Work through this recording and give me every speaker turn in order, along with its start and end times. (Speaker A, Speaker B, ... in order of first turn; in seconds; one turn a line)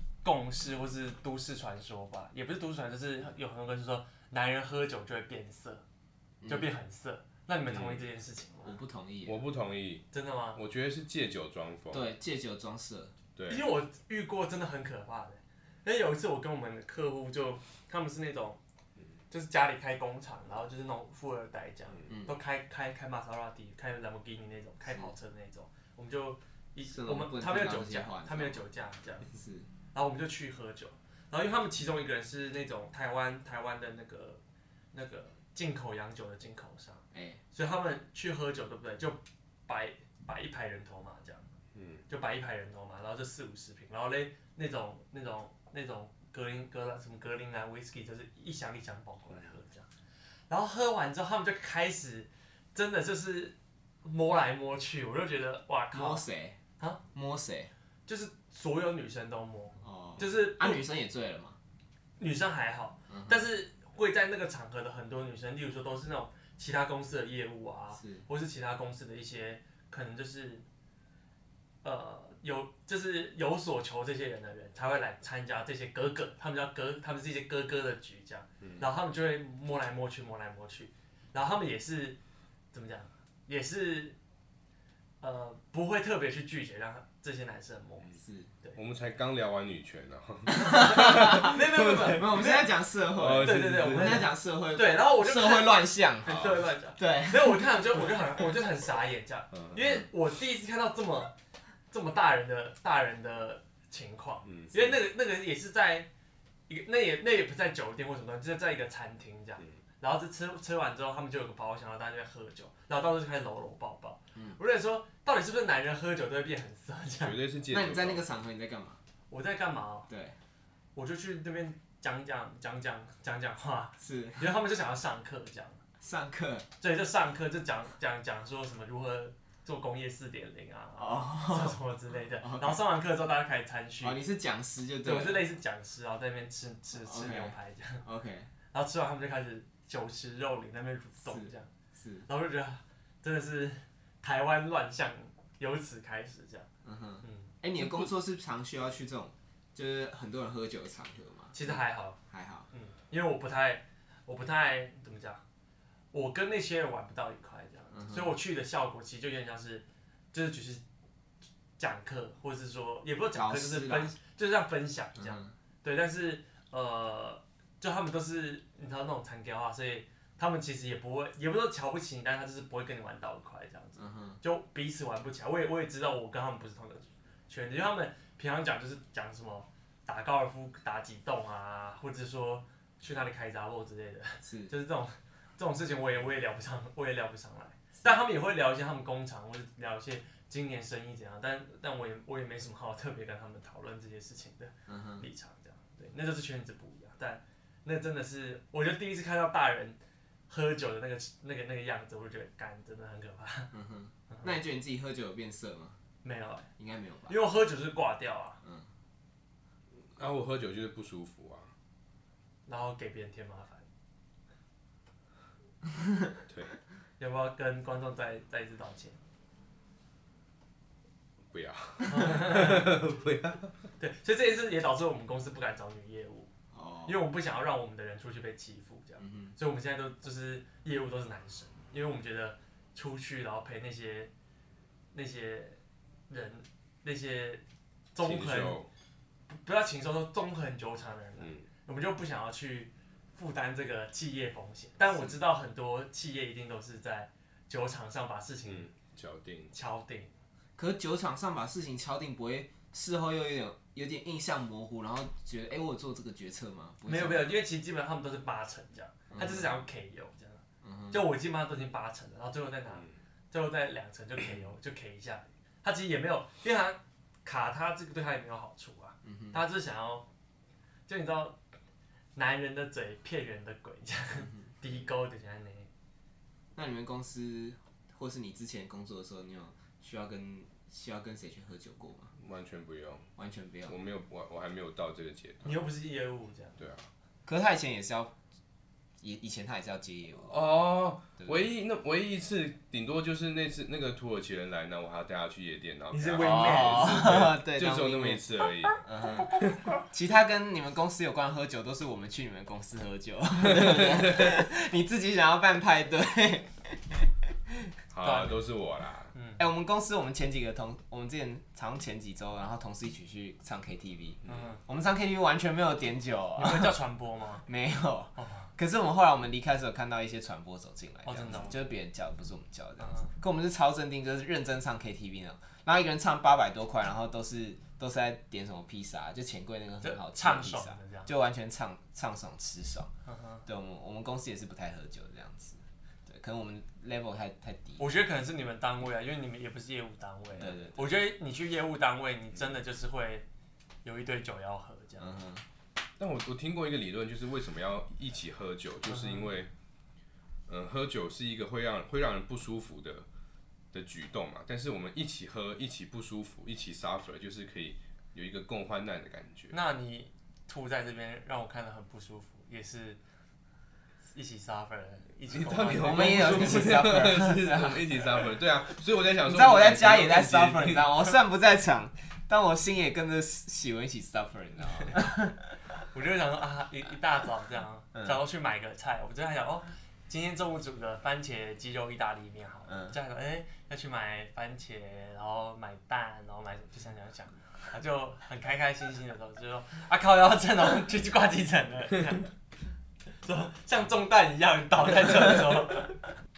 Speaker A: 0.2-5.8
Speaker B: 6.4-6.7
Speaker A: 6.5-8.8
Speaker C: 7.7-8.0
Speaker B: 8.6-9.4
Speaker C: 9.3-12.1
Speaker A: 10.1-10.6
Speaker B: 11.9-13.2
Speaker C: 13.4-13.7
Speaker A: 13.5-18.6
Speaker A: 19.3-29.3
Speaker B: 22.1-22.4
Speaker B: 24.9-25.1
Speaker B: 26.9-28.6
Speaker B: 29.2-29.7
Speaker A: 29.9-34.4
Speaker A: 34.9-41.5
Speaker B: 37.1-37.4
Speaker C: 41.8-42.0
Speaker A: 42.1-49.9
Speaker A: 50.5-56.2
Speaker B: 55.9-56.6
Speaker B: 57.1-57.7
Speaker A: 58.1-60.8
Speaker B: 59.8-61.6
Speaker A: 62.2-70.7
Speaker B: 63.1-63.5
Speaker B: 68.0-68.3
Speaker A: 71.8-82.2
Speaker C: 78.6-78.9
Speaker A: 82.7-84.2
Speaker A: 85.2-88.8
Speaker B: 88.2-88.5
Speaker C: 88.8-92.2
Speaker B: 90.5-98.1
Speaker A: 90.6-92.7
Speaker C: 93.2-94.3
Speaker A: 93.4-101.3
Speaker C: 99.5-100.0
Speaker A: 101.9-106.1
Speaker C: 104.5-104.8
Speaker A: 106.7-117.4
Speaker C: 117.2-118.2
Speaker B: 117.7-119.0
Speaker A: 119.3-120.1
Speaker B: 120.1-120.4
Speaker A: 121.0-125.8
Speaker B: 124.0-124.5
Speaker B: 126.0-126.7
Speaker A: 126.8-134.2
Speaker B: 131.0-131.8
Speaker B: 132.4-132.8
Speaker B: 134.0-135.4
Speaker A: 135.0-138.0
Speaker B: 136.9-138.5
Speaker A: 138.7-141.7
Speaker B: 141.2-142.3
Speaker A: 142.3-146.7
Speaker B: 146.8-152.7
Speaker A: 147.2-147.5
Speaker A: 151.5-152.2
Speaker A: 152.7-155.4
Speaker A: 156.1-160.8
Speaker B: 157.9-158.4
Speaker A: 161.8-200.0
Speaker B: 163.3-164.1
Speaker B: 165.2-165.5
Speaker B: 174.0-174.4
Speaker B: 184.4-184.7
Speaker B: 194.9-195.3
Speaker A: 200.5-203.7
Speaker B: 203.7-206.0
Speaker A: 206.2-206.7
Speaker B: 206.8-207.4
Speaker A: 207.3-208.6
Speaker C: 210.2-211.7
Speaker A: 212.7-213.9
Speaker A: 217.2-219.2
Speaker C: 221.5-223.7
Speaker A: 222.1-222.9
Speaker A: 224.0-226.5
Speaker B: 226.7-227.2
Speaker A: 227.1-234.3
Speaker B: 229.2-229.6
Speaker A: 235.1-237.6
Speaker A: 238.1-238.8
Speaker C: 238.2-238.9
Speaker A: 239.5-248.9
Speaker C: 241.4-241.7
Speaker C: 248.7-249.7
Speaker A: 249.7-250.3
Speaker B: 250.8-257.6
Speaker A: 257.1-270.3
Speaker B: 259.3-259.7
Speaker B: 260.8-261.2
Speaker B: 269.2-269.6
Speaker A: 271.1-271.6
Speaker A: 272.4-275.9
Speaker B: 276.8-282.3
Speaker C: 282.4-283.3
Speaker B: 283.4-284.0
Speaker C: 283.9-285.8
Speaker A: 285.6-286.8
Speaker C: 286.8-287.1
Speaker B: 287.5-288.3
Speaker B: 289.2-290.6
Speaker C: 290.5-299.0
Speaker B: 291.4-291.7
Speaker A: 296.1-297.4
Speaker B: 296.4-298.4
Speaker B: 299.0-307.9
Speaker C: 303.6-304.5
Speaker C: 308.1-309.3
Speaker A: 308.2-308.6
Speaker A: 309.3-309.6
Speaker B: 309.6-316.9
Speaker C: 314.4-314.7
Speaker A: 314.5-314.8
Speaker A: 316.6-317.6
Speaker B: 317.7-333.1
Speaker A: 318.4-318.7
Speaker A: 321.3-321.8
Speaker A: 323.0-323.3
Speaker A: 330.0-331.3
Speaker A: 333.3-333.6
Speaker B: 333.7-338.1
Speaker A: 338.0-343.4
Speaker B: 340.6-341.2
Speaker A: 344.0-345.4
Speaker B: 345.2-345.6
Speaker C: 346.2-349.7
Speaker A: 349.1-349.5
Speaker C: 350.7-353.3
Speaker C: 353.9-359.8
Speaker A: 359.7-363.2
Speaker A: 364.3-366.8
Speaker C: 365.5-371.3
Speaker B: 365.9-368.5
Speaker B: 369.4-375.7
Speaker A: 376.1-392.5
Speaker B: 378.1-378.4
Speaker B: 382.9-383.2
Speaker A: 393.4-396.3